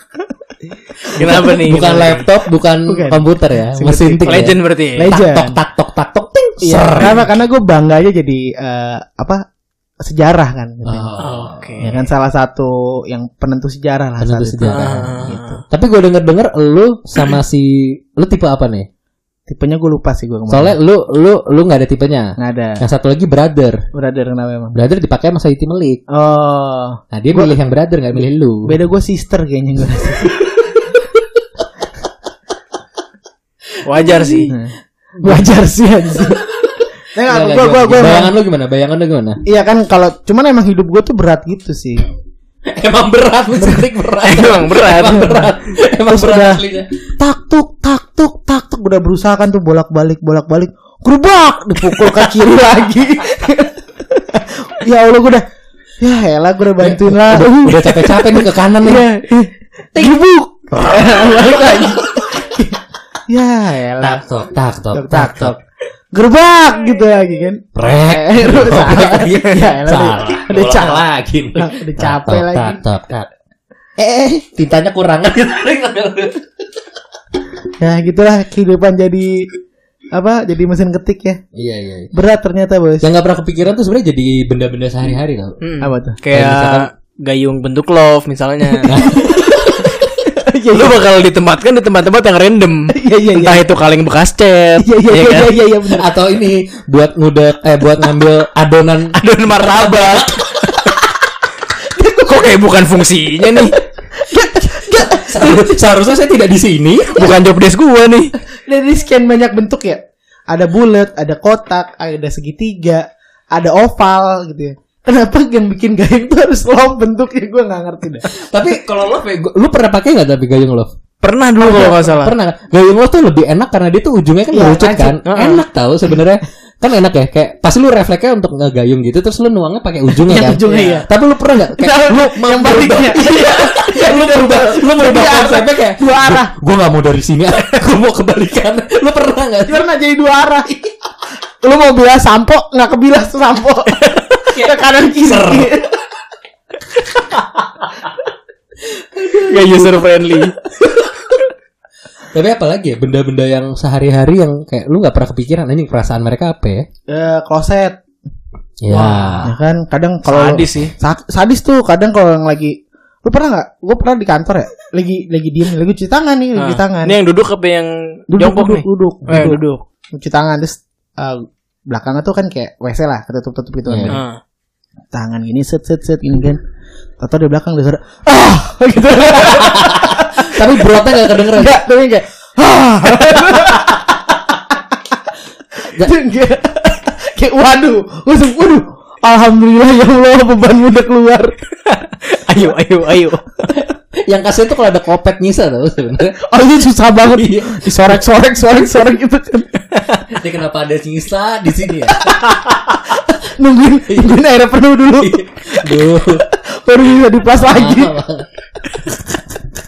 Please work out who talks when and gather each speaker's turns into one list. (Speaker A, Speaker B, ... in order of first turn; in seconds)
Speaker A: 1.1-7.2, 10.8-11.9, 14.2-18.9, 20.5-23.8, 24.7-26.0, 27.1-28.7, 34.1-34.4, 36.6-39.4, 42.7-46.9, 56.8-59.1, 60.7-62.3, 64.0-65.5, 67.7-73.3, 74.5-76.4, 81.5-82.1, 83.0-85.6, 86.3-86.9, 88.9-90.0, 95.9-100.5, 104.5-107.3, 118.3-120.9, 121.6-139.8, 140.7-140.9, 144.4-145.8, 148.8-150.0, 150.8-151.2, 152.3-156.8, 158.8-159.5, 169.3-169.6, 173.9-174.2, 179.3-181.8, 193.7-196.4, 197.3-198.2, 200.2-202.3, 204.1-204.4, 205.2-206.4, 207.7-208.5
Speaker B: 1.1-2.3, 4.2-5.1, 11.2-11.9, 14.6-15.6, 33.9-34.5, 44.2-45.5, 85.6-89.0, 90.7-95.5, 99.2-100.4, 102.2-103.8, 107.1-108.3, 121.2-122.3, 125.2-125.6, 149.5-150.6, 160.3-160.9, 166.6-169.8, 174.1-174.4, 191.9-193.7
Speaker C: 1.1-1.5, 2.9-5.6, 6.6-9.4, 10.0-11.2, 11.8-15.6, 19.5-20.8, 22.4-22.8, 23.9-24.7, 26.1-27.5, 28.6-30.7, 34.5-36.5, 37.1-38.3, 39.5-42.0, 46.0-46.6, 47.2-55.4, 56.0-64.2, 64.9-65.6, 66.1-72.8, 74.0-74.4, 77.8-79.5, 80.1-81.4, 82.1-83.1, 85.8-86.2, 89.0-91.1, 92.9-93.6, 94.8-96.1, 101.9-102.5, 104.1-105.6, 108.7-118.3, 124.5-125.2, 130.2-131.1, 131.7-136.5, 139.7-140.7, 141.6-145.9, 157.1-158.0, 158.9-167.2, 168.3-169.6, 170.2-174.2, 175.1-176.6, 177.2-184.8, 185.8-191.6, 196.4-199.7, 202.1-208.2